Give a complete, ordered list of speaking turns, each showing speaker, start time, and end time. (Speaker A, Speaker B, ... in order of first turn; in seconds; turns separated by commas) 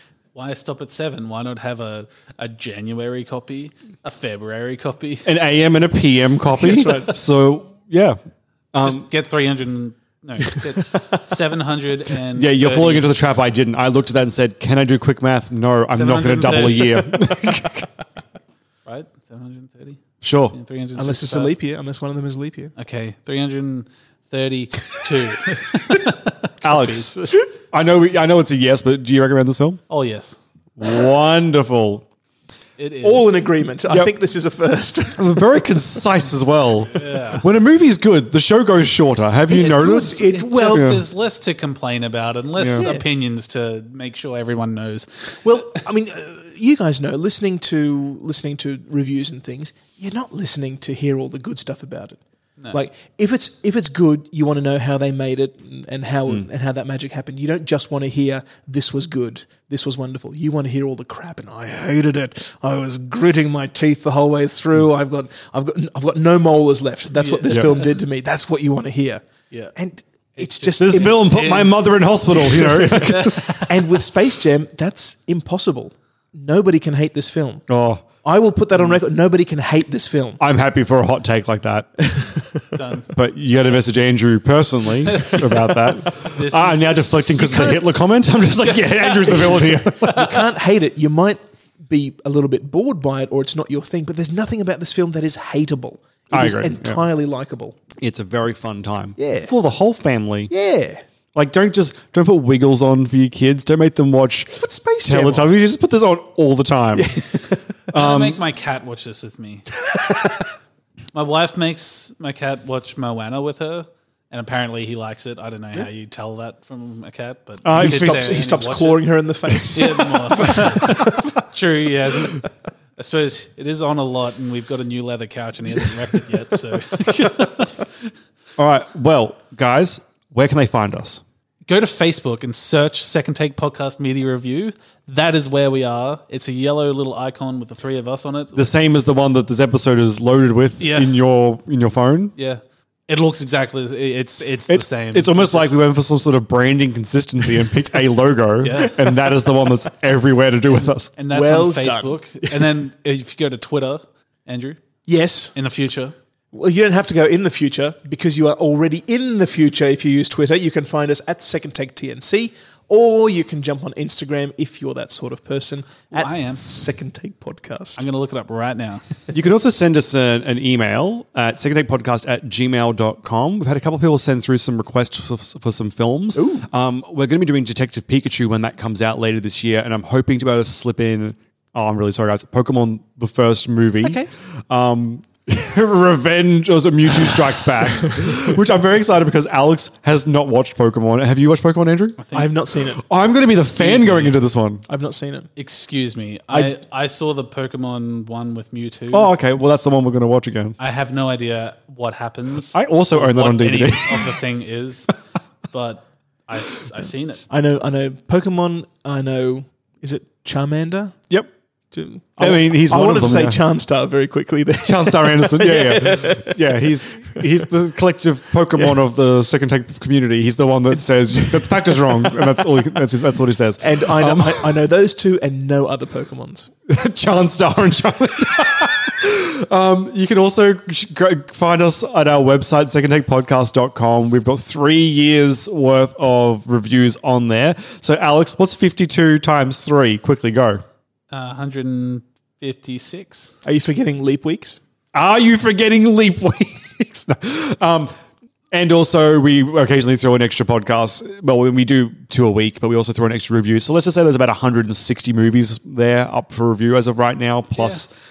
Speaker A: 0.3-5.3, Speaker B: 5.2-8.2, Speaker C: 6.6-7.1, Speaker B: 8.7-9.1, Speaker A: 8.8-13.2, Speaker B: 12.3-17.9, Speaker A: 15.9-17.4, Speaker A: 18.8-21.5, Speaker B: 20.2-20.6, Speaker C: 20.9-22.7, Speaker A: 22.8-27.3, Speaker B: 26.6-29.8, Speaker A: 29.9-30.4, Speaker B: 30.8-32.0, Speaker A: 32.8-33.4, Speaker C: 33.0-35.6, Speaker B: 33.9-34.1, Speaker B: 35.2-41.0, Speaker A: 37.0-37.5, Speaker C: 39.5-41.0, Speaker A: 39.8-45.5, Speaker B: 42.6-42.9, Speaker C: 42.7-43.0, Speaker C: 45.4-52.2, Speaker C: 52.7-69.2, Speaker A: 67.1-67.9, Speaker B: 67.5-67.7, Speaker C: 69.8-71.6, Speaker A: 70.3-71.8, Speaker B: 70.8-73.6, Speaker C: 72.3-77.6, Speaker A: 73.0-73.6, Speaker B: 77.7-78.0, Speaker C: 78.2-80.4, Speaker B: 80.4-82.1, Speaker C: 82.1-82.6, Speaker A: 82.8-83.0, Speaker B: 83.1-90.3, Speaker A: 85.1-85.5, Speaker A: 86.0-87.3, Speaker C: 86.9-87.9, Speaker A: 88.7-89.6, Speaker C: 89.3-97.8, Speaker B: 96.3-97.0, Speaker B: 98.0-100.5, Speaker C: 99.2-99.5, Speaker C: 100.5-101.0, Speaker B: 101.3-108.4, Speaker C: 104.6-105.5, Speaker C: 107.0-107.5, Speaker A: 107.9-109.7, Speaker A: 111.1-119.2, Speaker B: 117.6-118.5, Speaker C: 117.7-121.4, Speaker A: 119.7-122.4, Speaker A: 123.0-127.8, Speaker B: 128.6-131.2, Speaker A: 131.7-138.7, Speaker B: 138.5-142.3, Speaker A: 140.8-141.1, Speaker A: 142.3-145.8, Speaker B: 144.7-151.1, Speaker A: 148.6-149.0, Speaker A: 150.7-154.8, Speaker C: 151.3-152.7, Speaker C: 155.1-155.6, Speaker A: 155.5-156.1, Speaker C: 156.5-168.0, Speaker A: 166.1-166.6, Speaker A: 167.9-169.0, Speaker B: 169.3-192.2, Speaker C: 176.3-176.7, Speaker C: 184.0-184.3, Speaker A: 192.2-192.5, Speaker C: 192.3-193.0, Speaker B: 193.0-194.8, Speaker A: 193.6-194.4, Speaker C: 194.9-195.5, Speaker A: 195.6-199.3, Speaker B: 199.1-200.8, Speaker A: 200.8-205.1, Speaker B: 202.7-204.3, Speaker A: 205.7-207.4, Speaker C: 207.5-211.2, Speaker C: 211.9-217.4, Speaker B: 212.4-213.6, Speaker B: 214.8-224.9, Speaker C: 221.4-221.7, Speaker C: 223.8-226.7, Speaker B: 226.9-240.8, Speaker A: 241.3-243.5, Speaker C: 243.6-244.8, Speaker B: 245.1-248.1, Speaker B: 248.7-258.1, Speaker A: 257.7-258.0